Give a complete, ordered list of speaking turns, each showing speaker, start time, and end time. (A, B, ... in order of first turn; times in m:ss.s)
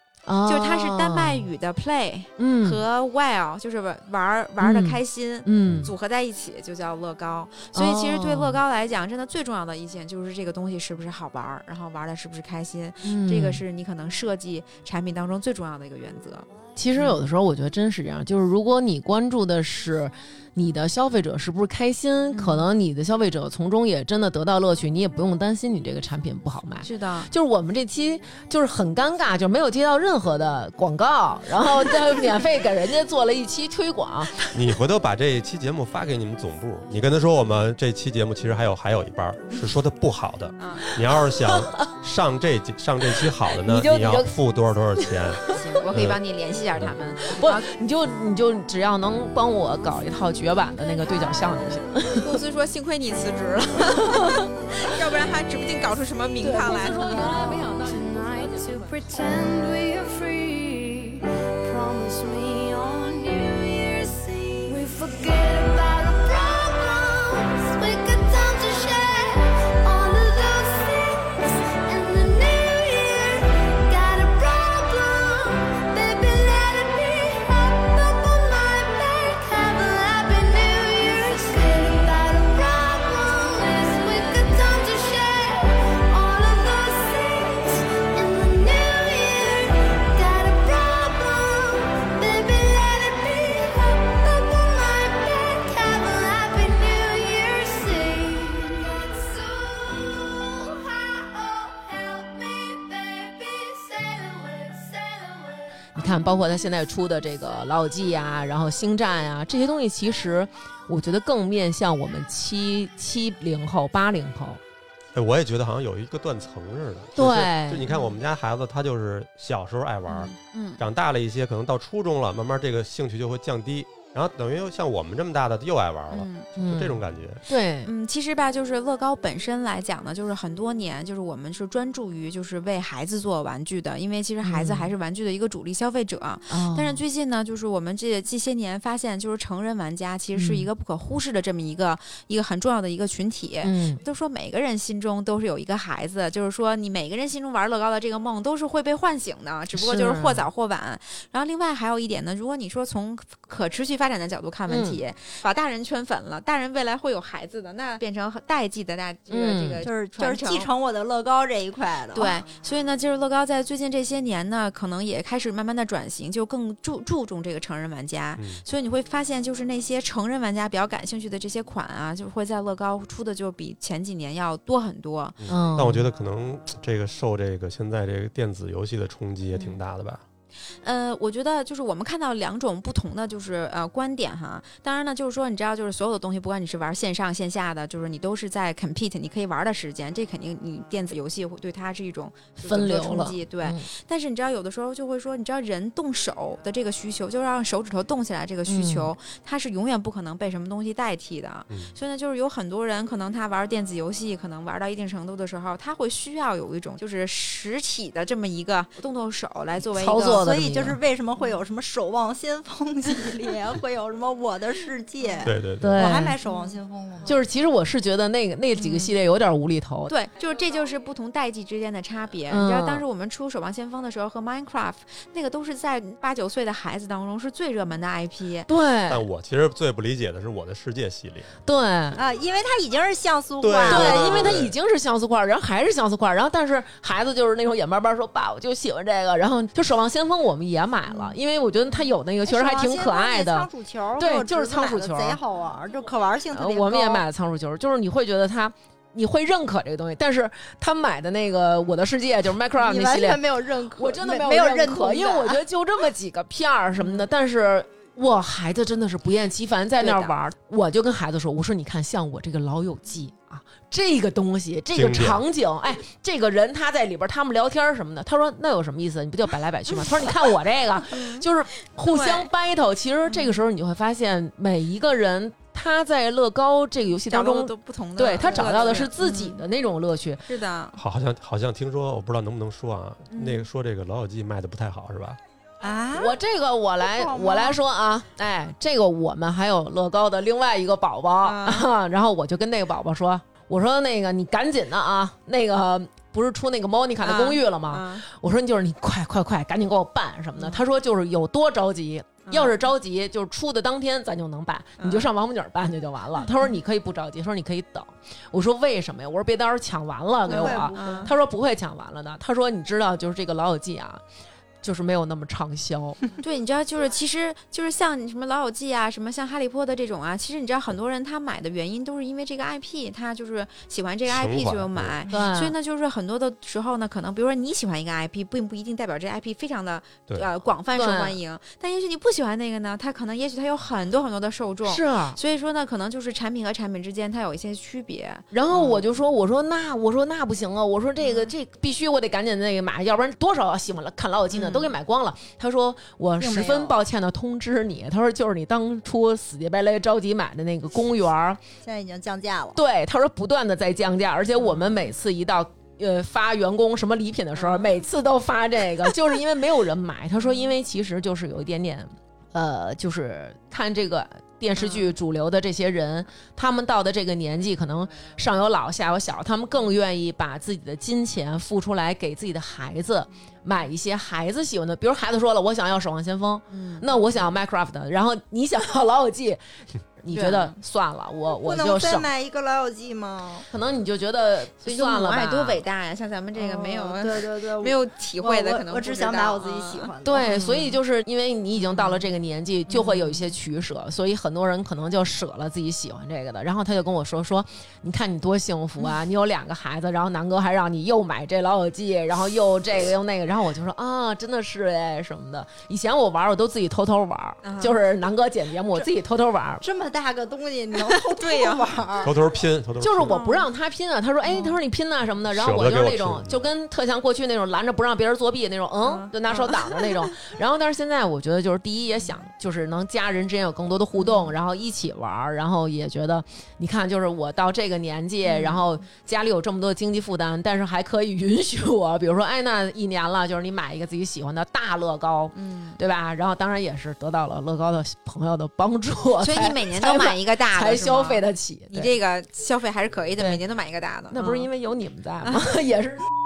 0:00.3-0:01.5 A
0:00.5-0:17.2 B
0:02.4-0:02.8 A
0:04.6-0:05.9 A
0:05.7-0:05.9 C
0:07.7-0:08.6 A
0:13.0-0:13.6 A
0:16.8-0:34.5 A
0:22.3-0:22.7 B
0:26.8-0:27.3 B
0:34.5-0:46.2 C
0:40.6-0:40.9 B
0:41.5-0:41.8 A
0:43.6-0:44.3 A
0:45.5-0:47.7 B
0:47.3-0:52.4 A
0:52.2-0:57.2 B
0:53.9-0:54.5 A
0:56.4-0:58.1 A
0:56.7-1:45.8 D
1:46.0-1:54.6 A
1:55.1-2:07.4 C
1:57.2-1:57.8 A
1:57.9-1:58.2 B
2:00.1-2:00.8 B
2:06.1-2:06.5 B
2:06.6-2:07.9 A
2:07.8-2:40.7 B
2:14.4-2:14.9 A
2:16.5-2:17.0 A
2:20.4-2:20.7 A
2:23.6-2:24.0 A
2:29.7-2:30.5 A
2:34.7-2:35.0 A
2:39.3-2:39.8 A
2:39.8-2:42.4 E
2:42.1-2:55.4 B
2:48.4-2:48.6 C
2:55.4-3:00.2 C
2:55.5-2:56.1 A
2:59.5-2:59.8 B
3:00.8-3:30.5 B
3:12.6-3:13.9 A
3:18.7-3:19.1 A
3:30.0-3:31.0 A
3:30.2-3:37.4 E
3:35.2-3:35.5 B
3:35.4-3:36.0 C
3:35.8-3:36.4 A
3:36.4-3:36.8 B
3:37.3-3:40.1 A
3:38.8-3:39.1 B
3:40.1-3:48.7 B
3:42.5-3:43.0 A
3:48.7-3:49.3 A
3:49.1-3:51.5 C
3:51.7-3:52.2 A
3:52.2-3:54.6 E
3:53.6-3:54.7 C
3:53.9-4:05.4 A
4:02.4-4:07.2 E
4:06.5-4:40.4 A
4:12.8-4:15.6 E
4:25.0-4:25.4 C
4:31.1-4:31.5 B
4:32.0-4:32.5 B
4:33.3-4:33.6 B
4:37.3-4:39.6 B
4:40.5-4:41.0 B
4:41.0-4:45.4 C
4:43.3-4:43.7 B
4:45.8-4:46.4 E
4:46.1-5:14.2 A
4:47.0-4:47.8 E
4:51.4-4:51.9 B
4:57.2-4:58.2 B
5:00.6-5:00.8 B
5:02.5-5:02.8 B
5:05.0-5:05.3 B
5:10.5-5:11.3 B
5:10.5-5:11.4 E
5:14.8-5:16.2 A
5:16.4-5:39.0 B
5:24.3-5:25.2 C
5:25.3-5:25.8 A
5:31.0-5:31.4 A
5:34.8-5:35.4 A
5:38.5-5:51.6 A
5:41.2-5:41.5 B
5:44.5-5:44.9 B
5:46.4-5:47.0 E
5:51.8-5:52.8 E
5:52.8-6:19.6 A
5:57.6-5:57.9 B
6:00.4-6:00.7 B
6:04.8-6:05.1 B
6:16.7-6:17.1 B
6:20.2-6:22.3 A
6:20.3-6:20.8 B
6:21.6-6:23.7 E
6:23.7-6:25.8 A
6:24.8-6:30.1 B
6:26.6-6:30.9 E
6:30.2-6:49.8 A
6:47.6-6:48.0 B
6:49.8-6:52.3 E
6:51.1-6:52.3 B
6:52.2-6:53.4 C
6:53.0-7:22.1 A
6:53.3-6:53.7 B
6:54.5-6:54.8 B
6:55.5-6:56.7 C
6:59.1-6:59.9 B
7:04.2-7:04.5 B
7:08.4-7:08.8 B
7:15.6-7:16.0 B
7:19.4-7:24.7 B
7:24.3-7:26.3 A